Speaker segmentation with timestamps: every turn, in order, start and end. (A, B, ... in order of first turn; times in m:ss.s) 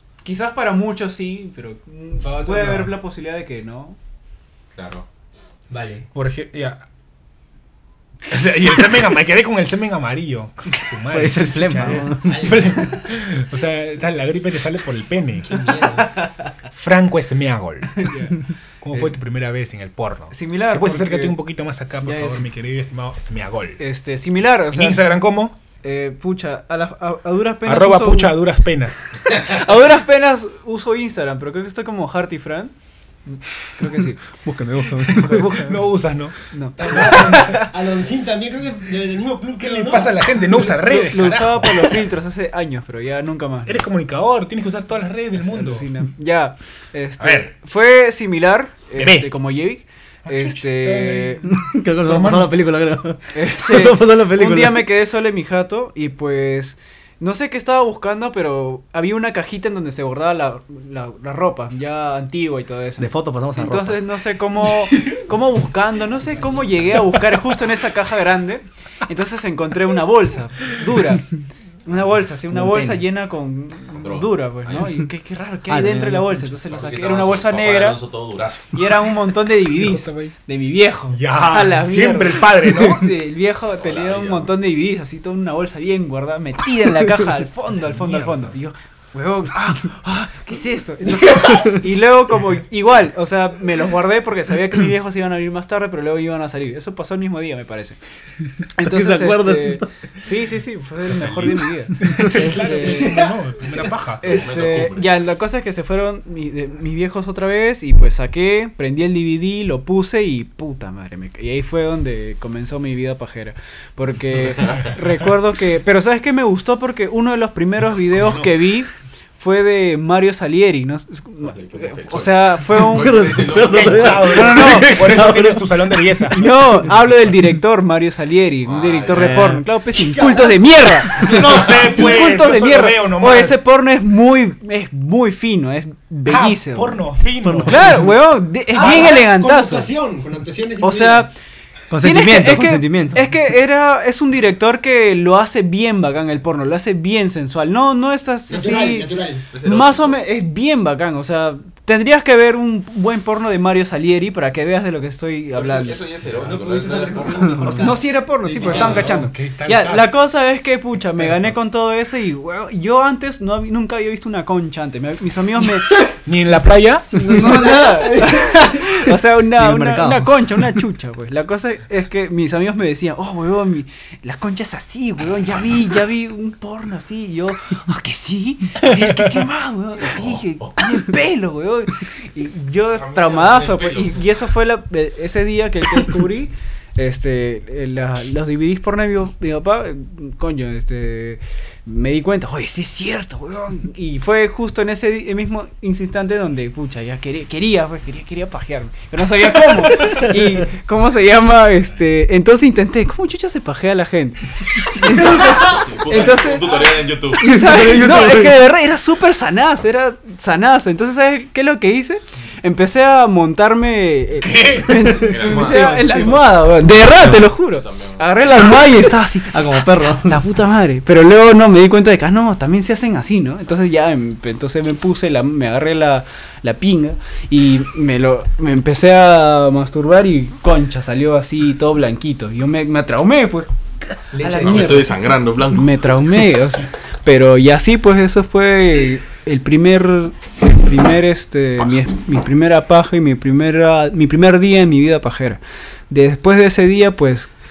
0:00.2-0:04.0 A
0:02.2-0:02.9 B
0:04.7-0:05.0 C
0:05.7-0:06.1 B
0:06.1-0:06.8 D
0:08.3-0:15.6 D
0:11.1-0:12.6 E
0:11.8-0:13.0 B
0:15.4-0:16.1 B
0:16.7-0:18.3 D
0:18.0-0:18.3 A
0:18.8-0:23.8 D
0:20.3-0:21.4 A
0:22.0-0:22.4 A
0:23.8-0:25.1 A
0:24.7-0:25.5 D
0:25.8-0:28.4 A
0:27.6-0:29.0 D
0:29.3-0:32.7 A
0:33.3-0:34.3 A
0:34.5-0:35.3 E
0:34.9-0:36.3 D
0:35.0-0:35.9 A
0:36.5-0:37.6 A
0:36.8-0:40.4 B
0:36.9-0:37.6 D
0:39.6-0:42.0 D
0:40.8-0:43.8 A
0:43.6-0:45.9 D
0:45.4-0:51.4 A
0:47.2-0:47.5 D
0:49.0-0:49.3 D
0:50.2-0:51.5 D
0:51.5-0:54.9 E
0:52.0-0:52.5 D
0:53.3-1:11.3 A
1:03.0-1:04.0 E
1:11.8-1:18.0 A
1:12.5-1:13.0 E
1:13.9-1:14.9 C
1:15.7-1:16.5 E
1:16.7-1:18.7 C
1:18.7-1:38.0 A
1:19.8-1:20.3 D
1:21.1-1:23.1 D
1:23.8-1:24.5 C
1:27.8-1:28.5 D
1:31.4-1:31.8 E
1:38.8-1:43.2 A
1:38.8-1:39.9 E
1:41.2-1:44.4 D
1:43.0-1:43.3 B
1:44.2-2:03.3 A
1:44.2-1:45.2 C
1:58.2-1:58.5 D
2:01.4-2:04.3 C
2:02.7-2:06.3 E
2:03.6-2:06.9 D
2:04.3-2:05.0 A
2:06.3-2:17.0 A
2:08.6-2:09.4 C
2:09.1-2:09.6 E
2:10.1-2:10.5 B
2:11.2-2:13.6 D
2:16.2-2:18.1 D
2:17.4-2:18.1 E
2:17.6-2:19.9 A
2:18.7-2:21.3 B
2:20.8-2:21.3 A
2:21.9-2:23.3 E
2:22.0-2:36.0 A
2:28.5-2:29.4 B
2:29.5-2:30.2 C
2:35.5-2:37.8 C
2:36.3-2:39.2 B
2:37.7-2:46.0 A
2:38.6-2:40.2 D
2:41.1-2:41.5 D
2:46.2-2:47.2 D
2:47.2-3:26.8 A
2:47.3-2:48.4 B
2:49.5-2:50.6 E
3:00.0-3:00.7 C
3:02.9-3:04.2 C
3:25.0-3:27.4 C
3:26.2-3:26.8 B
3:27.4-3:53.7 A
3:27.4-3:28.6 E
3:34.4-3:35.6 D
3:35.2-3:36.2 C
3:35.7-3:36.1 E
3:37.0-3:38.3 C
3:39.5-3:40.4 E
3:54.3-3:55.1 B
3:54.4-3:55.1 A
3:54.6-3:56.2 C
3:55.7-4:07.5 A